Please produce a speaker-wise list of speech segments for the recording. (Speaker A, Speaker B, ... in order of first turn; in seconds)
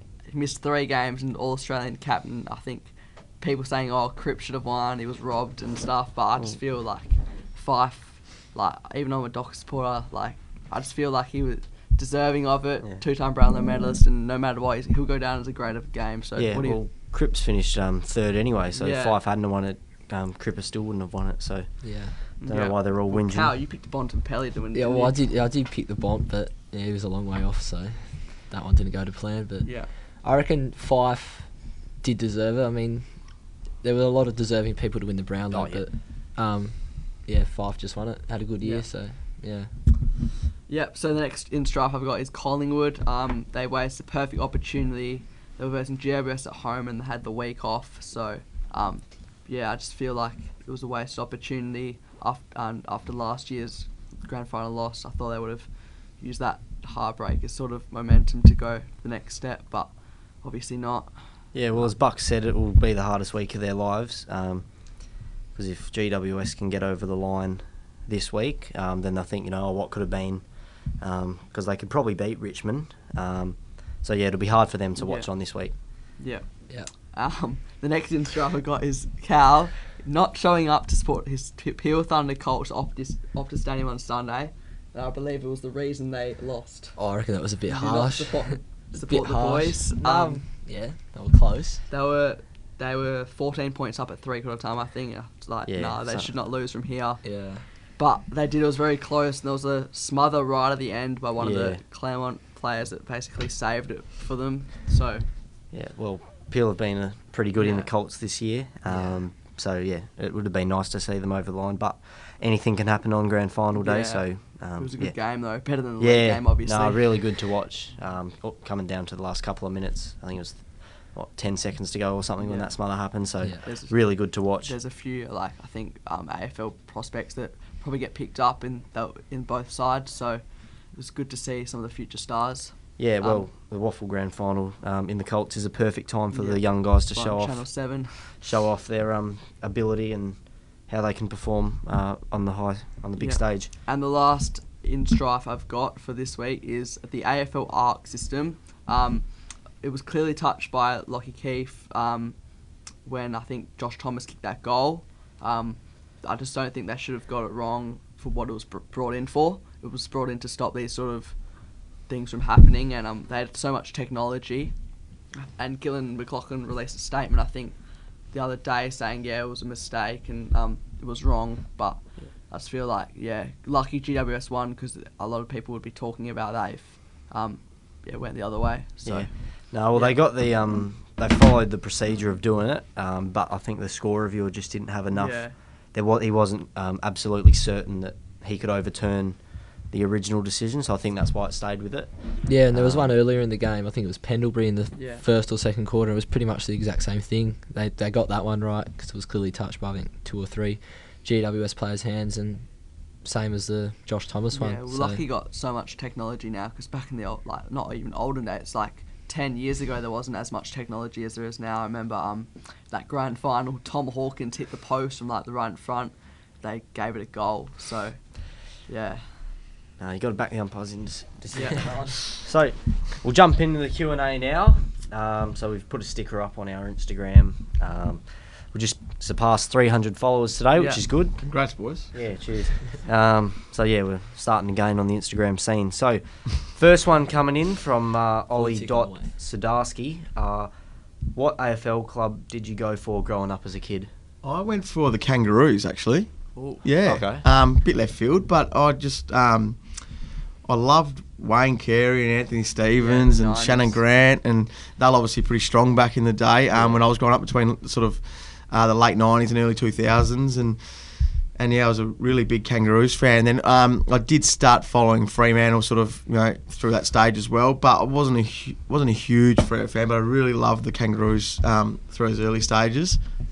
Speaker A: 0.3-16.8, 18.7-19.2, 22.4-25.1, 29.6-29.9, 38.6-38.9, 40.7-61.9, 75.0-87.0, 87.6-90.4, 91.9-105.2, 107.5-107.9, 108.8-109.2, 113.7-117.3, 122.4-133.5, 136.3-138.4, 143.2-149.3, 149.8-164.8, 165.3-180.3, 185.1-185.6, 194.9-195.2, 204.5-219.4, 221.5-222.3, 230.7-231.0, 246.5-246.8, 253.0-254.0
Speaker B: 16.4-23.5, 35.5-35.9, 61.5-75.8, 95.6-96.3, 101.4-101.8, 105.7-124.8, 133.0-143.7, 179.0-193.2, 220.0-231.6, 232.1-240.7, 241.3-244.1, 247.0-247.4
Speaker C: 21.8-22.1, 24.7-39.7, 87.0-91.8, 97.2-97.7, 123.4-123.7, 192.4-205.2, 238.5-239.3
Speaker D: 231.4-232.1, 244.4-260.8, 261.5-273.2